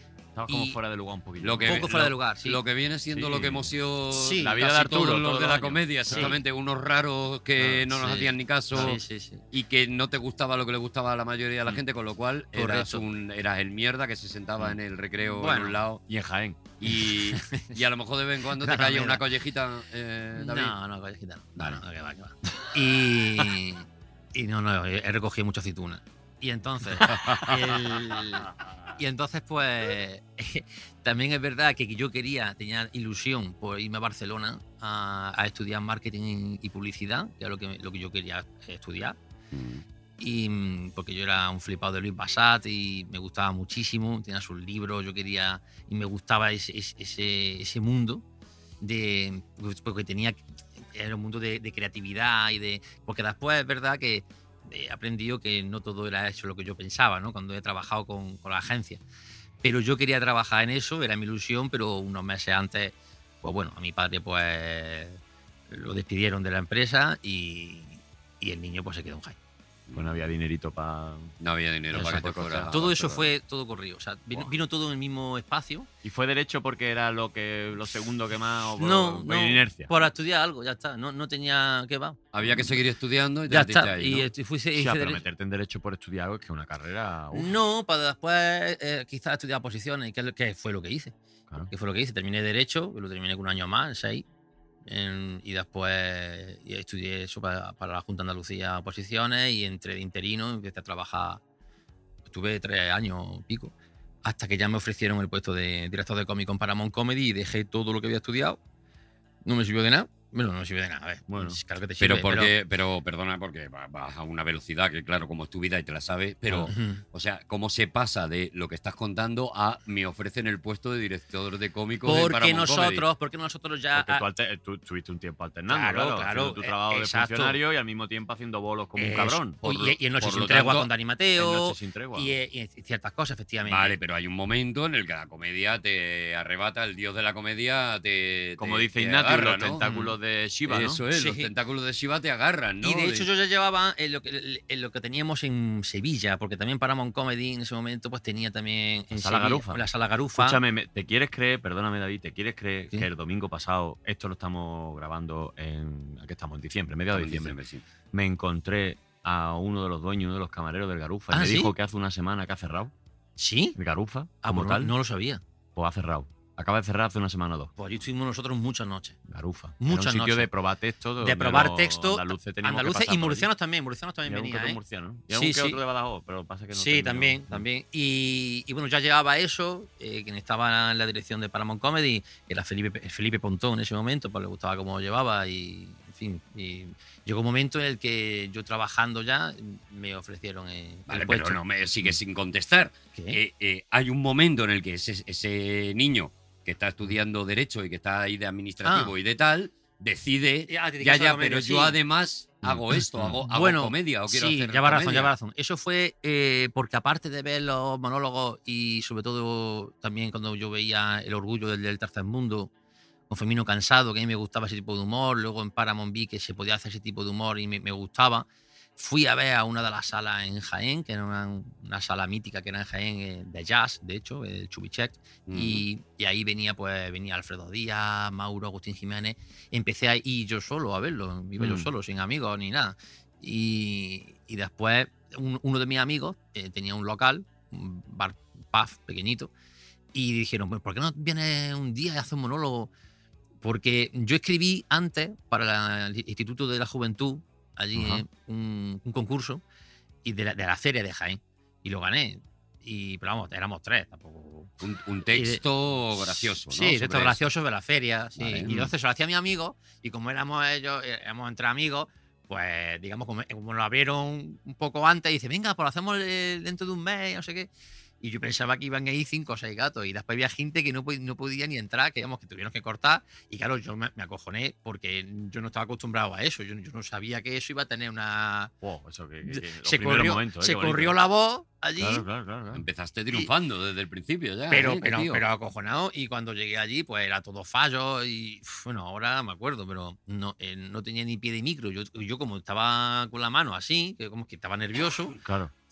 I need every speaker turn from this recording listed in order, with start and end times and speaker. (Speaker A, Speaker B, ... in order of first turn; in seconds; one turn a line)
Speaker A: 0.4-2.0
Speaker B: 0.5-0.8
Speaker C: 1.4-9.0
Speaker B: 1.6-2.6
Speaker A: 3.1-3.7
Speaker B: 4.1-4.6
Speaker A: 4.4-6.4
Speaker B: 6.1-6.4
Speaker B: 7.9-9.4
Speaker C: 9.5-16.0
Speaker B: 12.5-13.0
Speaker B: 15.3-15.8
Speaker A: 16.1-16.6
Speaker C: 16.8-20.7
Speaker B: 17.3-17.8
Speaker B: 18.6-19.2
Speaker B: 20.3-39.2
Speaker C: 21.6-21.8
Speaker C: 27.1-27.6
Speaker C: 39.5-39.8
Speaker B: 40.2-48.2
Speaker B: 48.8-59.0
Speaker B: 59.6-69.4
Speaker C: 69.9-70.3
Speaker A: 69.9-71.3
Speaker C: 71.4-73.2
Speaker A: 71.9-72.9
Speaker B: 71.9-75.9
Speaker A: 76.0-79.9
Speaker B: 78.8-82.2
Speaker C: 82.3-84.3
Speaker B: 83.5-85.2
Speaker A: 84.8-87.5
Speaker B: 87.3-91.1
Speaker B: 91.7-94.2
Speaker B: 94.9-101.4
Speaker B: 102.3-108.6
Speaker B: 109.4-112.5
Speaker A: 111.3-111.6
Speaker C: 112.0-123.0
Speaker B: 116.7-117.0
Speaker B: 122.0-124.2
Speaker A: 123.9-130.8
Speaker B: 125.7-127.6
Speaker B: 129.0-133.9
Speaker C: 130.4-130.9
Speaker A: 131.4-132.3
Speaker C: 133.6-139.8
Speaker A: 138.6-141.0
Speaker B: 139.8-140.2
Speaker C: 140.7-143.3
Speaker B: 141.1-141.5
Speaker B: 142.8-150.6
Speaker A: 149.1-149.8
Speaker A: 150.4-157.6
Speaker C: 157.1-157.8
Speaker A: 158.1-162.9
Speaker B: 161.3-161.7
Speaker B: 163.4-163.8
Speaker A: 163.8-164.9
Speaker B: 164.4-165.4
Speaker A: 165.8-167.7
Speaker B: 167.8-169.2
Speaker A: 169.3-173.5
Speaker B: 169.8-170.5
Speaker B: 171.2-174.8
Speaker A: 174.2-177.6
Speaker B: 175.3-175.8
Speaker B: 176.7-192.1
Speaker C: 191.1-205.3
Speaker B: 198.8-199.1
Speaker B: 200.7-202.0
Speaker B: 202.6-212.7
Speaker B: 213.3-239.5
Speaker C: 225.5-225.8
Speaker A: 231.6-231.9
Speaker B: 240.1-242.9
Speaker B: 243.6-249.6
Speaker A: 247.9-248.2
Speaker B: 250.2-254.7
Speaker C: 254.8-257.4
Speaker B: 255.3-255.6
Speaker B: 256.6-267.7
Speaker C: 258.4-258.9
Speaker B: 268.2-278.7
Speaker A: 278.8-281.2
Speaker B: 279.4-282.2
Speaker A: 282.0-282.8
Speaker C: 282.7-285.4
Speaker B: 284.7-295.4
Speaker A: 295.4-295.7